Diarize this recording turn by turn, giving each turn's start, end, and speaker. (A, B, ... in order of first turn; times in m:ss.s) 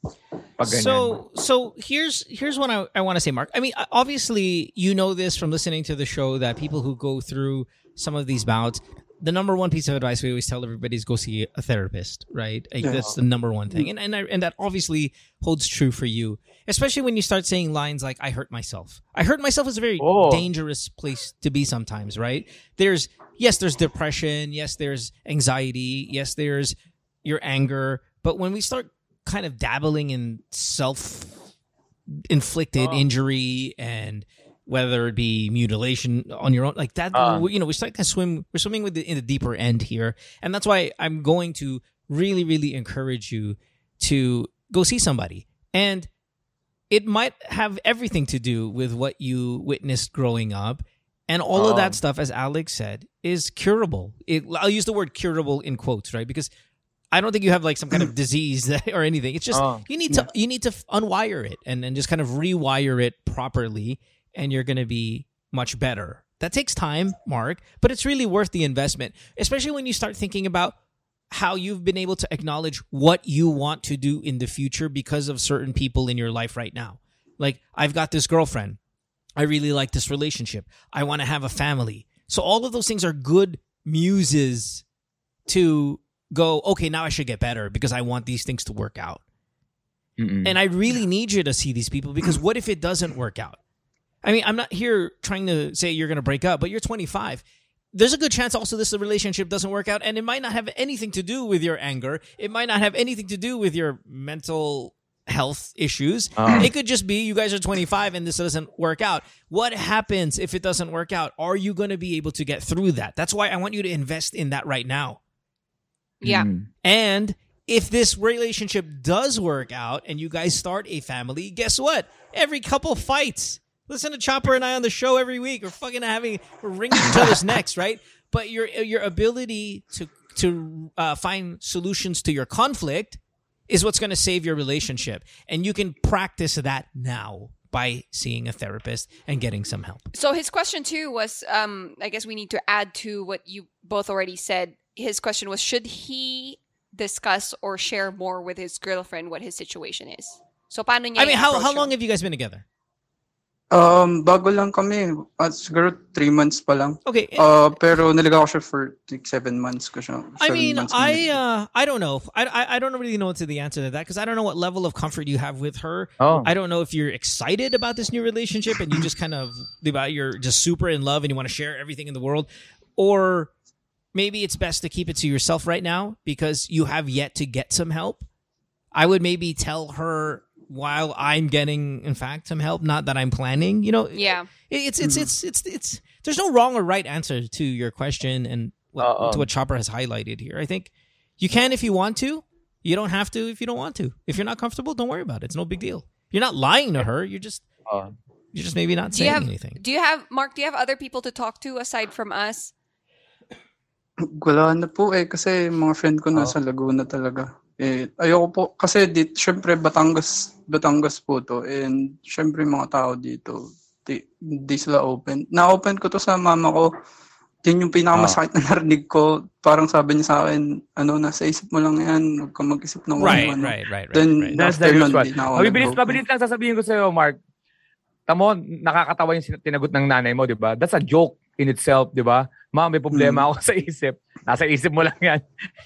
0:00.6-0:01.2 A
0:00.6-0:31.4 B
0:12.8-0:13.1 C
0:20.0-0:20.4 A
0:32.1-0:46.1 B
0:37.1-0:37.4 A
0:46.9-0:56.5 B
0:51.6-0:52.0 A
0:57.1-1:10.8 B
0:59.5-0:59.8 A
1:11.3-1:18.8 B
1:19.4-1:24.8 B
1:25.5-1:29.2 B
1:30.2-1:30.6 A
1:30.4-1:33.6 B
1:34.2-1:55.2 B
1:46.4-1:46.7 A
1:56.2-1:56.5 D
1:56.2-1:56.6 A
1:56.8-2:20.0 B
2:20.1-2:31.9 D
2:31.2-2:32.6 B
2:33.7-2:41.3 C
2:37.0-2:37.5 B
2:40.4-2:53.5 B
2:46.2-2:46.5 A
2:54.1-2:58.2 B
2:58.9-3:17.6 B
3:04.1-3:04.5 D
3:05.0-3:05.3 C
3:09.0-3:09.5 A
3:18.5-3:19.8 B
3:19.1-3:22.7 D
3:24.4-3:36.9 C
3:37.6-3:46.2 C
3:43.2-3:44.6 B
3:43.2-3:43.5 A
3:44.6-3:47.4 A
3:48.3-3:55.5 A
3:53.1-3:53.5 C